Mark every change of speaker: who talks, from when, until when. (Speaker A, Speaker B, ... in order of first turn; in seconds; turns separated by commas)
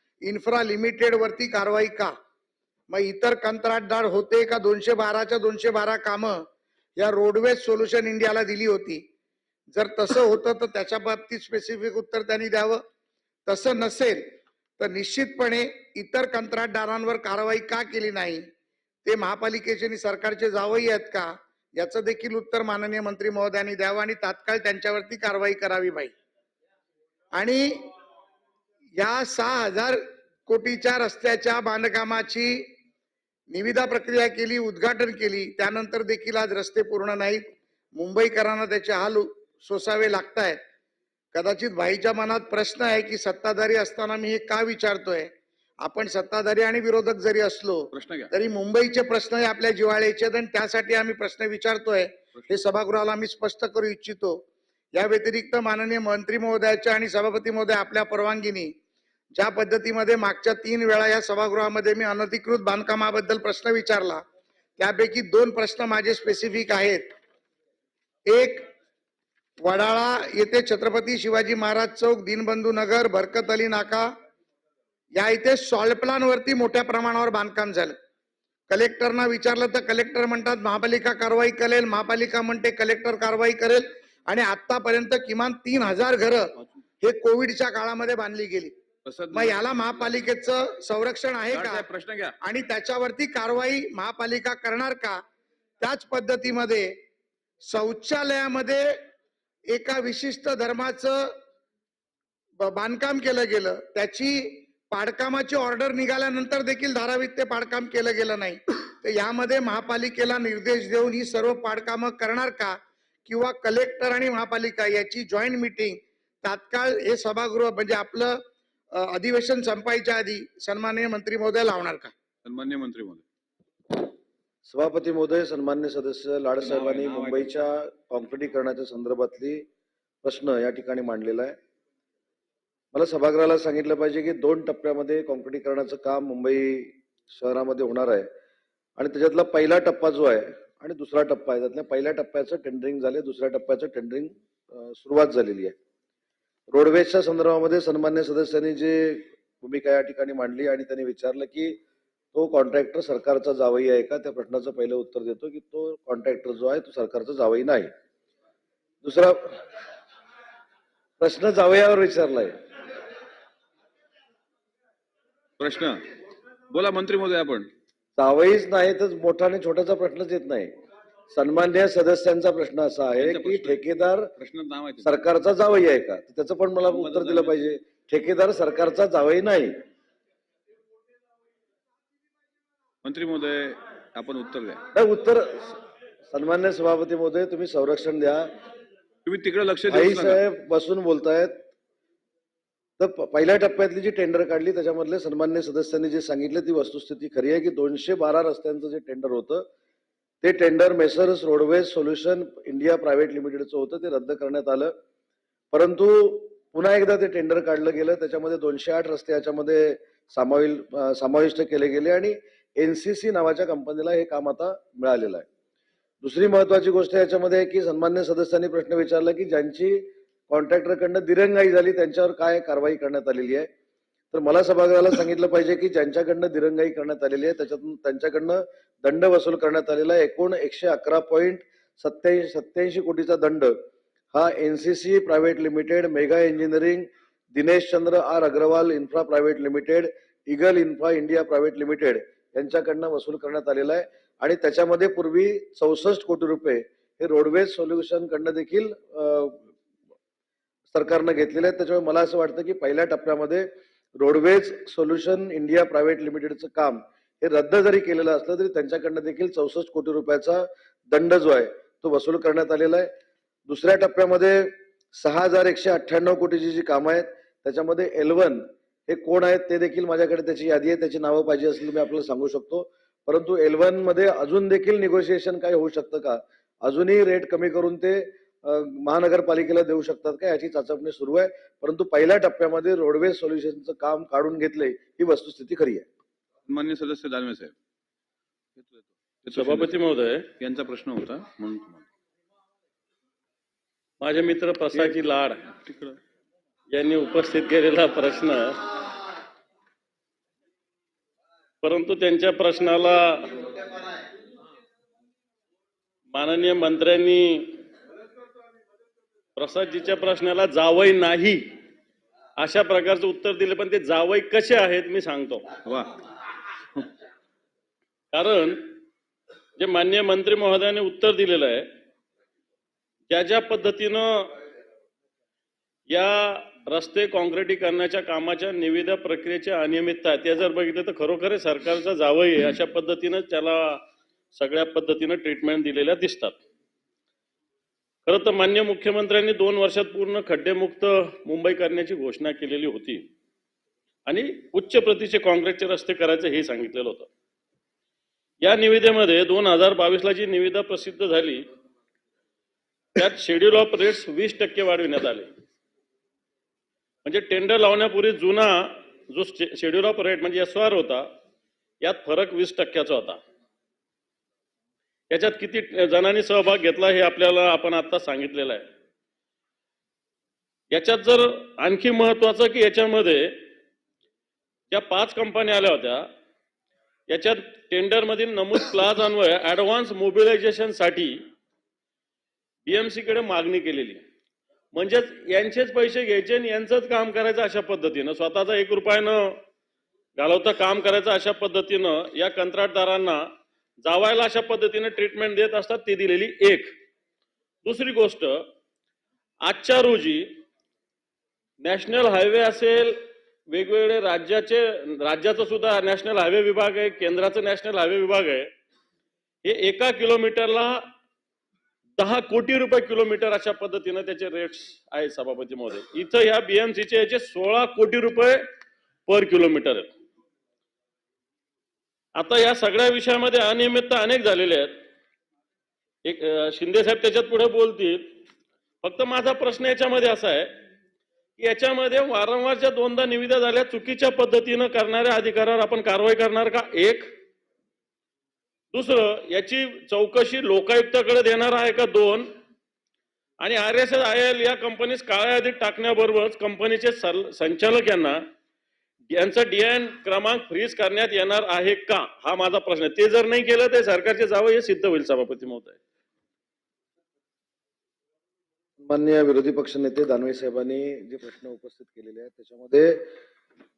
Speaker A: 0.2-2.1, Speaker A: 2.9-6.4, Speaker A: 7.0-9.0, Speaker A: 9.7-12.8, Speaker A: 13.5-18.5, Speaker A: 19.0-26.1, Speaker A: 27.3-27.8, Speaker A: 29.0-32.7, Speaker A: 33.5-40.6, Speaker A: 41.3-45.3, Speaker A: 45.8-54.4, Speaker B: 47.9-48.3, Speaker A: 54.9-58.7, Speaker A: 59.4-64.2, Speaker A: 64.8-67.1, Speaker A: 68.3-68.7, Speaker A: 69.6-74.1, Speaker A: 75.2-78.0, Speaker A: 78.7-88.7, Speaker B: 89.0-89.6, Speaker A: 89.3-91.8, Speaker B: 91.5-92.3, Speaker A: 92.4-95.2, Speaker A: 95.8-97.0, Speaker A: 97.7-99.0, Speaker A: 99.7-101.3, Speaker A: 102.6-118.4, Speaker A: 118.9-122.1, Speaker B: 122.4-123.2, Speaker C: 124.7-129.6, Speaker B: 126.6-127.5, Speaker C: 130.2-131.6, Speaker C: 132.9-138.3, Speaker C: 139.0-145.7, Speaker C: 146.7-151.8, Speaker C: 152.3-157.9, Speaker C: 159.0-159.6, Speaker C: 161.2-162.6, Speaker B: 165.6-166.0, Speaker B: 166.7-167.7, Speaker C: 168.2-170.7, Speaker C: 171.3-174.3, Speaker B: 173.2-173.8, Speaker B: 174.4-175.2, Speaker C: 175.0-179.8, Speaker B: 176.8-177.6, Speaker B: 183.0-184.8, Speaker C: 184.9-185.8, Speaker C: 186.3-188.5, Speaker B: 189.2-190.4, Speaker C: 189.9-191.6, Speaker C: 193.0-199.7, Speaker C: 200.4-204.9, Speaker C: 205.7-215.4, Speaker C: 216.2-223.7, Speaker C: 224.3-249.6, Speaker C: 250.9-263.1, Speaker C: 263.7-286.1, Speaker B: 286.7-287.7, Speaker B: 288.8-289.9, Speaker D: 289.5-290.4, Speaker B: 290.6-292.0, Speaker D: 294.2-295.7, Speaker B: 295.8-296.1, Speaker D: 296.9-298.8, Speaker D: 301.8-303.6, Speaker D: 306.3-307.8, Speaker D: 309.6-311.7, Speaker D: 312.6-315.7, Speaker B: 315.9-316.1, Speaker D: 318.3-318.9, Speaker D: 319.8-321.9, Speaker D: 323.3-324.5, Speaker D: 326.1-334.0, Speaker D: 334.5-336.6, Speaker D: 338.2-343.2, Speaker D: 344.2-347.3, Speaker D: 348.6-351.7, Speaker D: 353.1-355.5, Speaker D: 357.2-361.3, Speaker D: 362.0-363.4, Speaker D: 365.3-368.9, Speaker D: 370.9-373.6, Speaker D: 374.9-376.3, Speaker D: 377.3-381.4, Speaker D: 382.9-384.2, Speaker D: 384.9-389.6, Speaker D: 390.4-393.5, Speaker D: 394.0-396.9, Speaker D: 397.8-398.7, Speaker D: 399.6-400.6, Speaker D: 401.8-408.7, Speaker D: 409.6-411.1, Speaker D: 412.2-418.7, Speaker D: 419.3-420.1, Speaker D: 422.3-425.0, Speaker D: 426.2-428.4, Speaker D: 429.0-430.8, Speaker D: 431.6-437.3, Speaker D: 438.9-442.5, Speaker D: 443.6-448.4, Speaker D: 449.3-456.0, Speaker C: 459.0-463.2